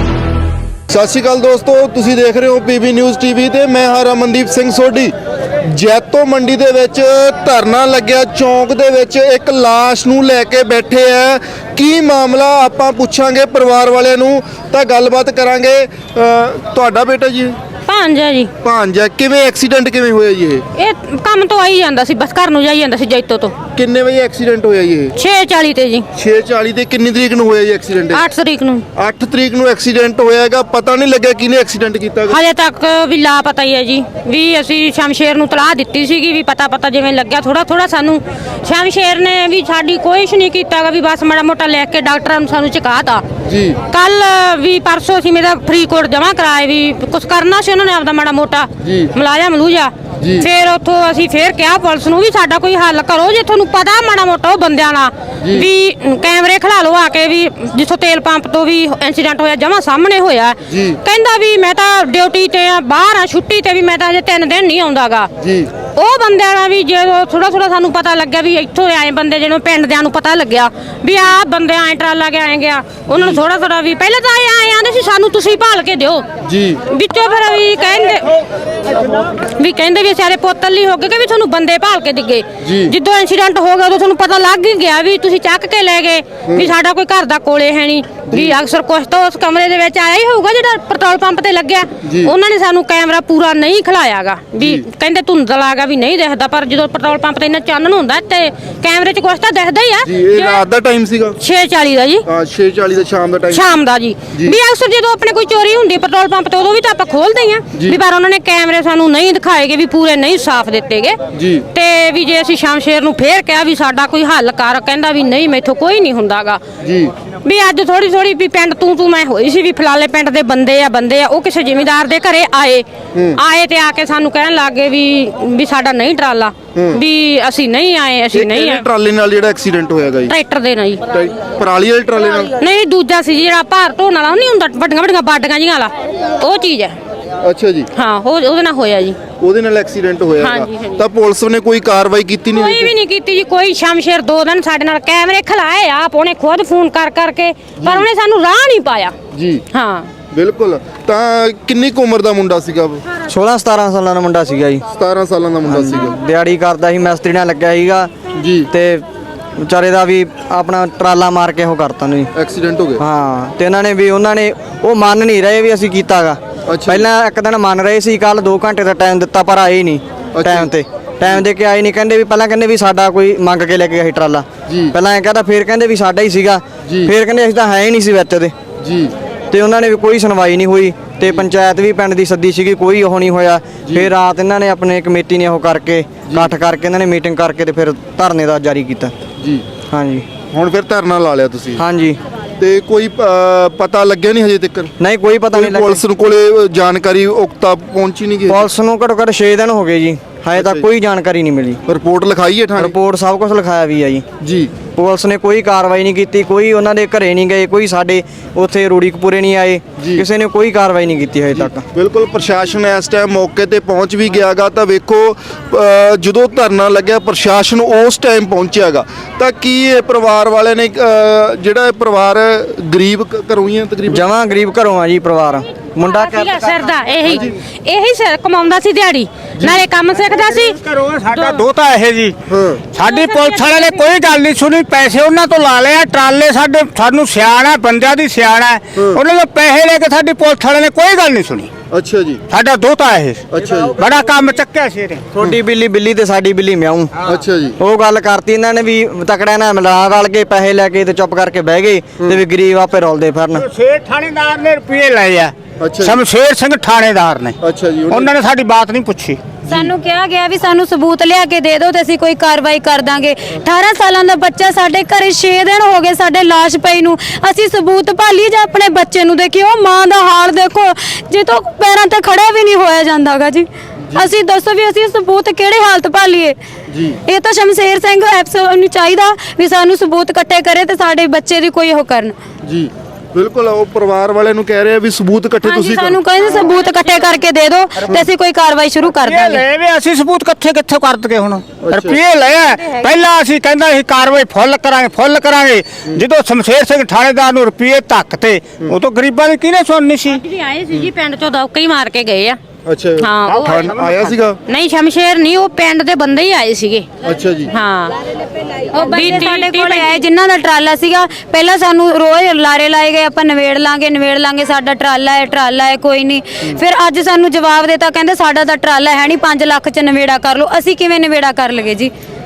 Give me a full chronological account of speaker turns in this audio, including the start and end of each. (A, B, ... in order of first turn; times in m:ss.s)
0:00.9-0:17.6 A
0:17.9-0:18.5 B
0:18.6-0:20.6 A
0:20.8-0:23.5 B
0:23.8-0:25.2 A
0:25.2-0:26.1 B
0:26.1-0:28.2 A
0:28.1-0:28.8 B
0:29.0-0:32.4 A
0:32.3-0:43.2 B
0:43.4-0:43.8 A
0:43.9-1:05.3 B
0:50.2-0:50.5 A
1:00.7-1:01.0 A
1:05.4-1:05.7 A
1:06.0-1:16.2 B
1:13.1-1:13.4 A
1:16.4-1:16.8 A
1:16.9-1:18.4 B
1:19.1-1:40.6 B
1:22.6-1:22.9 A
1:32.0-1:32.3 A
1:34.6-1:34.9 A
1:40.0-1:41.4 A
1:41.4-1:42.3 B
1:42.3-1:43.7 A
1:43.5-1:51.2 B
1:51.3-1:51.6 A
1:51.7-1:56.6 B
1:56.8-1:57.1 A
1:57.4-2:08.9 B
2:03.1-2:03.4 A
2:06.8-2:07.0 A
2:08.3-2:10.3 A
2:10.3-2:11.0 B
2:11.1-2:12.5 A
2:12.6-2:17.0 B
2:17.4-2:17.9 A
2:18.0-2:19.2 B
2:19.4-2:22.9 A
2:20.4-2:21.0 B
2:22.5-2:29.1 B
2:27.8-2:28.1 A
2:29.3-2:29.6 A
2:29.7-2:30.1 B
2:30.3-2:33.1 A
2:33.3-2:34.8 C
2:34.9-2:36.2 A
2:35.7-2:38.1 C
2:38.4-2:38.7 A
2:38.7-2:39.0 C
2:39.6-2:42.3 C
2:42.4-2:43.0 A
2:43.0-2:58.5 C
2:46.7-2:47.1 A
2:50.4-2:51.5 A
2:54.7-2:55.0 A
2:56.8-2:57.1 A
2:58.8-2:59.1 A
2:59.5-3:09.1 C
3:03.8-3:04.1 A
3:06.2-3:06.5 A
3:09.4-3:09.6 A
3:09.9-3:10.3 C
3:10.5-3:11.8 A
3:11.8-3:12.2 C
3:12.6-3:18.7 A
3:15.0-3:16.0 C
3:18.5-3:21.8 C
3:20.6-3:20.9 A
3:21.9-3:23.0 A
3:22.8-3:24.2 C
3:24.4-3:24.8 A
3:25.0-3:31.8 C
3:30.0-3:30.3 A
3:31.6-3:44.3 A
3:44.1-3:46.8 C
3:46.0-3:50.8 B
3:47.2-3:47.5 A
3:50.5-3:52.4 D
3:51.3-3:51.6 B
3:52.5-3:52.8 A
3:52.9-4:01.7 D
3:53.0-3:54.3 B
3:59.0-3:59.2 A
4:01.9-4:02.4 A
4:02.5-4:05.2 D
4:03.5-4:04.0 A
4:05.4-4:07.1 C
4:07.2-4:07.8 A
4:07.8-4:13.6 C
4:13.5-4:17.6 D
4:15.8-4:16.2 A
4:17.6-4:18.3 A
4:18.1-4:19.4 D
4:19.7-4:36.6 E
4:36.9-4:37.2 A
4:37.2-4:42.4 E
4:42.6-4:46.7 A
4:45.6-4:49.6 E
4:49.2-5:00.4 D
4:51.8-4:52.2 A
5:00.3-5:02.6 B
5:02.9-5:04.6 A
5:03.2-5:03.8 B
5:03.5-5:04.3 D
5:04.7-5:07.1 B
5:07.2-5:07.7 A
5:07.7-5:08.2 B
5:08.9-5:10.2 B
5:09.0-5:22.1 E